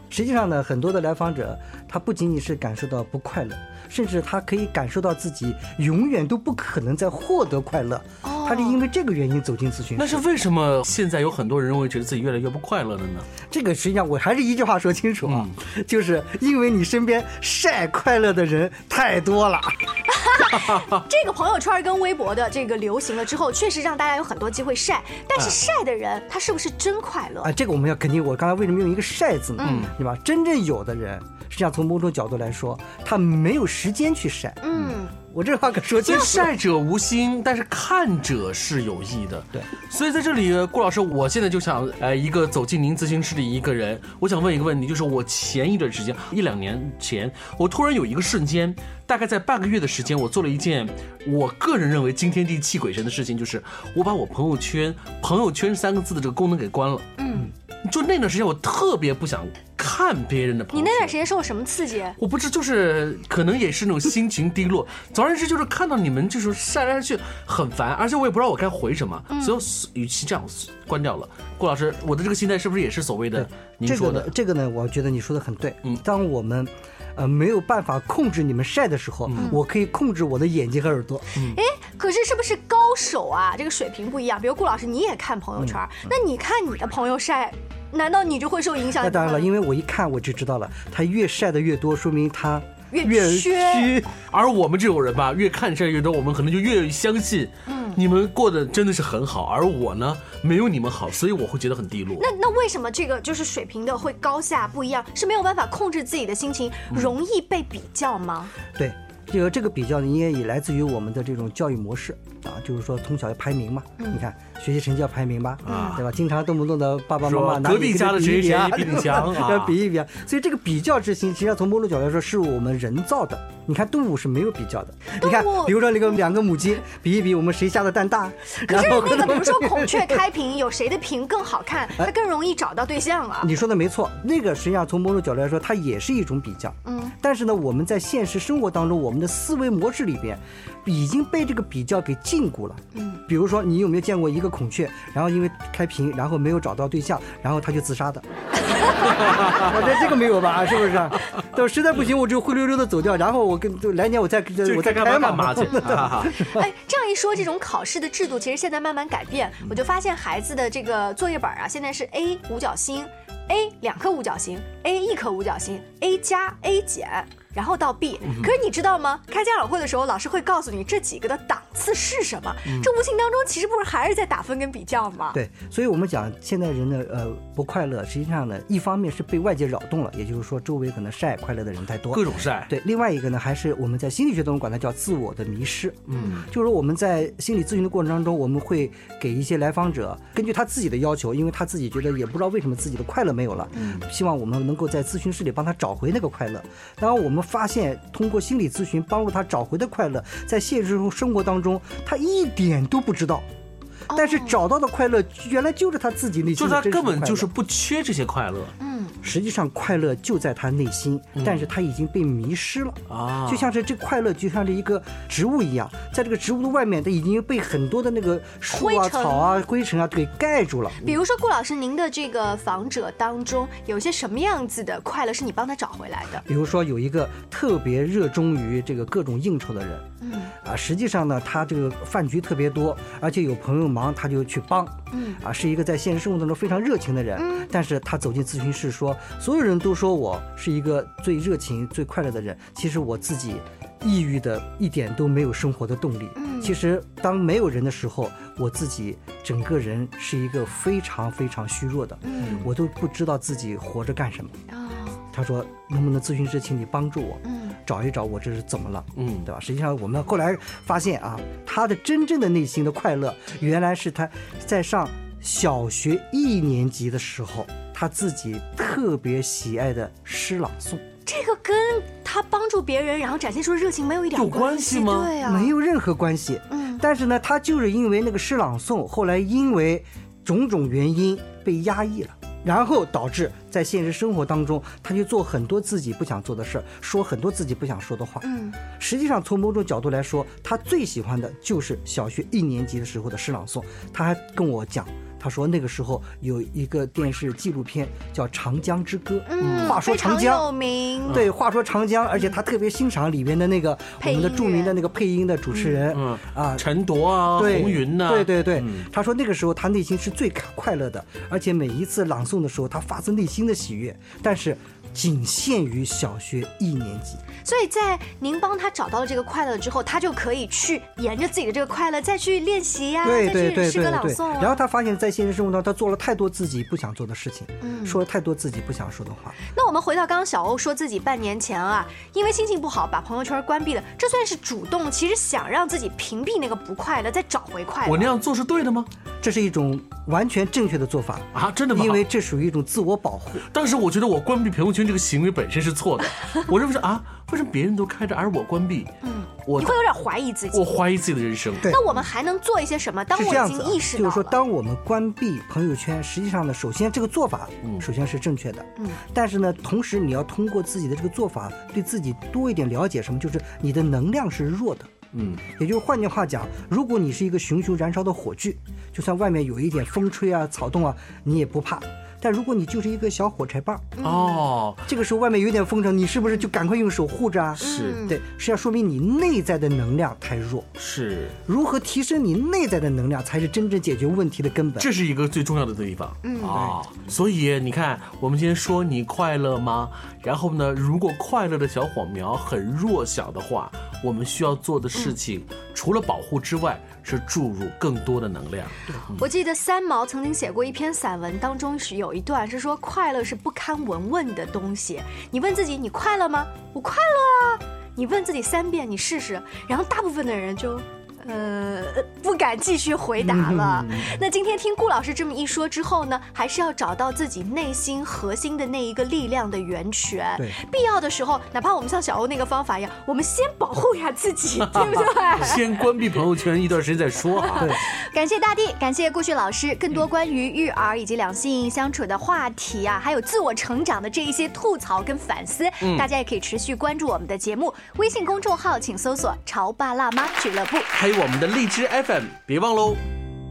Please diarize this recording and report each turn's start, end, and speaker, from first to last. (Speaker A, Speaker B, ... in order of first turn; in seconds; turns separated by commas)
Speaker A: 0.1-10.2, Speaker B: 8.2-8.8, Speaker C: 10.0-13.3, Speaker A: 13.5-19.8, Speaker C: 15.2-15.5, Speaker B: 20.1-27.5, Speaker C: 20.6-21.0, Speaker A: 27.4-36.5, Speaker B: 29.6-29.9, Speaker C: 29.6-29.9, Speaker B: 34.6-35.1, Speaker C: 36.0-61.2, Speaker B: 57.2-57.5, Speaker B: 60.7-62.2, Speaker C: 62.2-74.3, Speaker B: 69.3-69.6, Speaker A: 73.3-81.4, Speaker C: 79.3-79.6, Speaker B: 81.5-89.5, Speaker A: 89.0-94.1, Speaker B: 92.9-93.9, Speaker C: 94.3-102.2, Speaker B: 97.7-98.0, Speaker B: 102.2-108.5, Speaker A: 108.7-129.9, Speaker B: 114.0-114.2, Speaker C: 115.7-116.0, Speaker B: 115.7-116.0, Speaker C: 117.2-119.8, Speaker B: 125.1-126.2, Speaker B: 128.7-133.5, Speaker A: 133.4-148.2, Speaker B: 136.8-137.1, Speaker B: 142.9-143.2, Speaker A: 149.0-156.6, Speaker C: 149.0-149.7, Speaker C: 154.6-156.4, Speaker B: 155.7-155.9, Speaker B: 156.4-175.4, Speaker C: 168.2-168.5, Speaker A: 175.3-203.4, Speaker C: 182.1-182.7, Speaker C: 186.1-186.4, Speaker B: 204.1-204.6, Speaker A: 204.1-207.5, Speaker C: 206.6-208.7, Speaker B: 208.8-209.1, Speaker A: 209.2-221.2, Speaker C: 211.3-211.7, Speaker C: 213.1-213.7, Speaker B: 218.7-219.5, Speaker B: 221.0-226.4, Speaker A: 226.4-230.1, Speaker B: 230.2-230.5, Speaker A: 230.6-254.6, Speaker B: 235.1-235.4, Speaker B: 237.3-237.7, Speaker B: 246.3-246.8, Speaker B: 252.2-252.7, Speaker C: 252.4-252.7, Speaker B: 254.7-255.2, Speaker A: 255.3-271.1, Speaker B: 257.4-257.8, Speaker C: 259.2-259.5, Speaker B: 271.2-275.7, Speaker C: 274.3-275.3, Speaker A: 275.4-300.6, Speaker B: 276.7-277.0, Speaker B: 288.4-288.8, Speaker B: 299.4-301.4, Speaker C: 299.6-300.0, Speaker A: 301.3-306.9, Speaker B: 304.2-305.0, Speaker C: 306.1-309.1, Speaker A: 307.5-317.4, Speaker B: 317.6-324.8, Speaker A: 323.2-329.6, Speaker B: 327.8-328.2, Speaker B: 329.6-338.3, Speaker C: 338.0-339.1, Speaker A: 339.4-343.6, Speaker C: 341.5-342.2, Speaker C: 343.7-349.1, Speaker B: 349.2-350.9, Speaker C: 349.6-350.0, Speaker C: 350.7-351.9, Speaker B: 351.9-354.6, Speaker A: 353.3-365.1, Speaker C: 365.3-365.6, Speaker A: 365.7-374.2, Speaker B: 374.2-374.6, Speaker C: 374.2-375.0, Speaker A: 375.1-380.9, Speaker C: 377.8-378.3, Speaker B: 377.8-378.4, Speaker C: 381.0-381.6, Speaker A: 381.6-385.1, Speaker C: 385.0-399.5, Speaker B: 386.4-386.8, Speaker B: 399.4-425.9, Speaker A: 413.4-414.3, Speaker C: 424.8-427.9, Speaker B: 427.6-441.1, Speaker A: 427.8-428.0, Speaker C: 436.0-436.3, Speaker C: 441.1-443.2